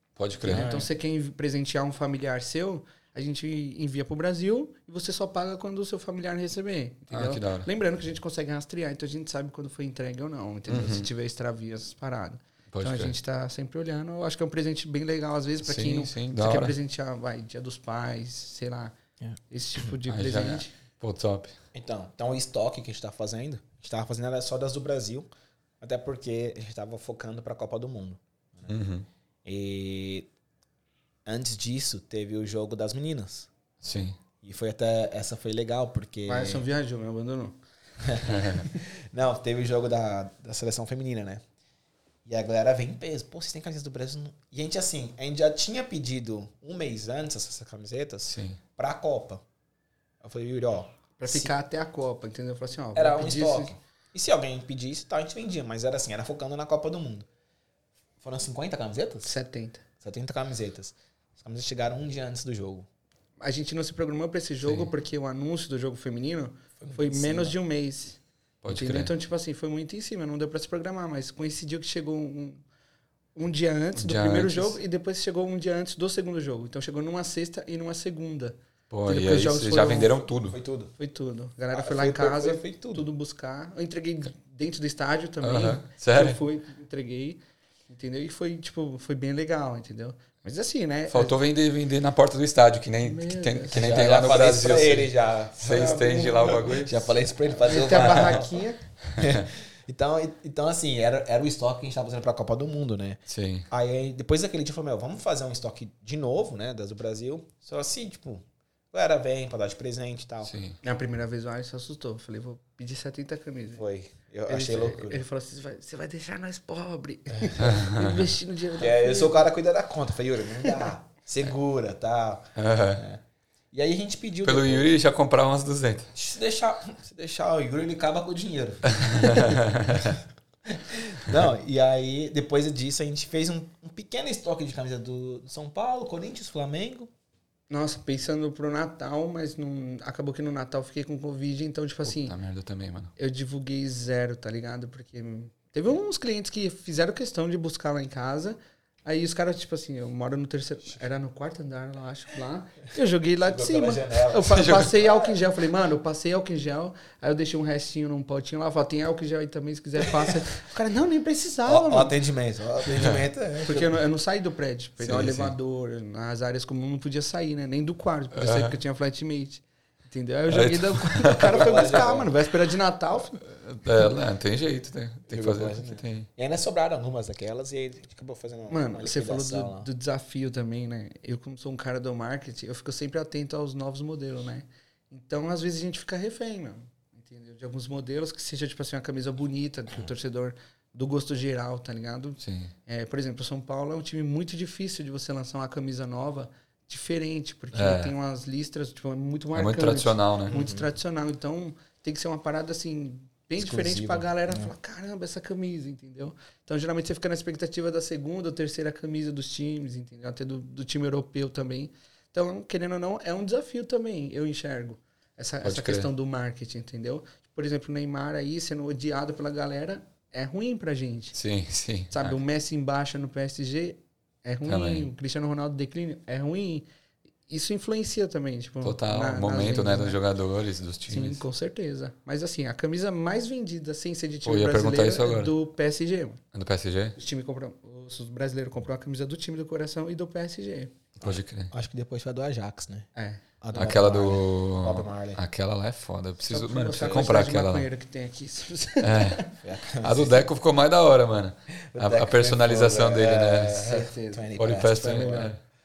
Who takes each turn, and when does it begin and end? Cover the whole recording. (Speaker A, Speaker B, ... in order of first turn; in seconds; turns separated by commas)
Speaker A: 0.2-0.7, Speaker B: 0.4-18.9, Speaker C: 0.5-0.9, Speaker A: 7.1-7.7, Speaker A: 10.7-11.1, Speaker A: 12.7-13.1, Speaker A: 15.6-16.8, Speaker B: 19.5-20.7, Speaker A: 20.1-21.5, Speaker C: 21.7-25.3, Speaker C: 25.8-28.7, Speaker A: 28.7-29.1, Speaker C: 29.4-30.3, Speaker C: 31.2-33.5, Speaker A: 33.8-34.1, Speaker C: 34.4-36.6, Speaker B: 36.3-37.6, Speaker C: 38.0-41.4, Speaker B: 38.1-38.8, Speaker A: 38.3-38.6, Speaker C: 42.2-49.4, Speaker A: 48.3-48.6, Speaker C: 50.2-51.5, Speaker B: 51.2-53.7, Speaker C: 52.9-57.3, Speaker C: 58.2-59.3, Speaker B: 59.2-59.8, Speaker C: 60.0-62.9, Speaker B: 63.4-72.6, Speaker A: 64.6-64.9, Speaker C: 66.8-67.5, Speaker A: 68.6-69.1, Speaker B: 73.3-80.1, Speaker A: 73.9-74.8, Speaker A: 78.9-80.6, Speaker C: 80.5-80.9, Speaker B: 81.0-91.3, Speaker C: 81.7-83.1, Speaker A: 85.4-86.4, Speaker A: 91.1-97.1, Speaker B: 93.0-94.3, Speaker C: 93.7-98.6, Speaker B: 95.7-96.8, Speaker B: 97.6-98.8, Speaker A: 97.9-98.4, Speaker A: 99.1-99.5, Speaker C: 99.1-110.5, Speaker A: 103.3-103.7, Speaker A: 110.4-110.8, Speaker B: 110.8-113.8, Speaker C: 113.8-115.2, Speaker B: 114.5-119.5, Speaker C: 117.3-117.6, Speaker A: 117.6-118.3, Speaker C: 118.8-124.9, Speaker A: 122.5-123.0, Speaker A: 124.4-126.1, Speaker C: 126.1-130.1, Speaker A: 128.9-130.2, Speaker C: 130.7-137.1, Speaker B: 137.7-142.3, Speaker A: 142.0-143.1, Speaker B: 143.2-162.1, Speaker C: 153.4-155.4, Speaker A: 154.5-154.9, Speaker C: 161.7-163.9, Speaker A: 162.9-163.2, Speaker B: 163.6-173.4, Speaker A: 165.0-165.5, Speaker A: 168.3-168.8, Speaker A: 170.5-172.0, Speaker C: 171.3-172.3, Speaker A: 173.4-176.3, Speaker C: 175.3-179.9, Speaker B: 178.7-221.3, Speaker A: 192.4-192.7, Speaker A: 197.7-198.1, Speaker A: 199.5-200.5, Speaker C: 200.5-200.9, Speaker C: 203.6-204.7, Speaker A: 215.6-216.1, Speaker A: 221.3-222.4, Speaker B: 222.1-226.9, Speaker A: 224.6-225.1, Speaker B: 227.5-230.2, Speaker A: 228.8-231.4, Speaker B: 231.1-236.4, Speaker A: 234.4-235.5, Speaker A: 236.5-237.2, Speaker B: 237.2-240.9, Speaker A: 241.2-241.7, Speaker C: 241.2-243.1, Speaker B: 243.2-243.4, Speaker C: 243.6-245.4, Speaker A: 243.7-247.9, Speaker B: 246.5-249.5, Speaker C: 247.0-247.3, Speaker A: 249.0-249.4, Speaker C: 249.6-250.5, Speaker A: 250.0-253.9, Speaker C: 251.7-255.5, Speaker B: 253.8-255.5, Speaker A: 254.6-255.6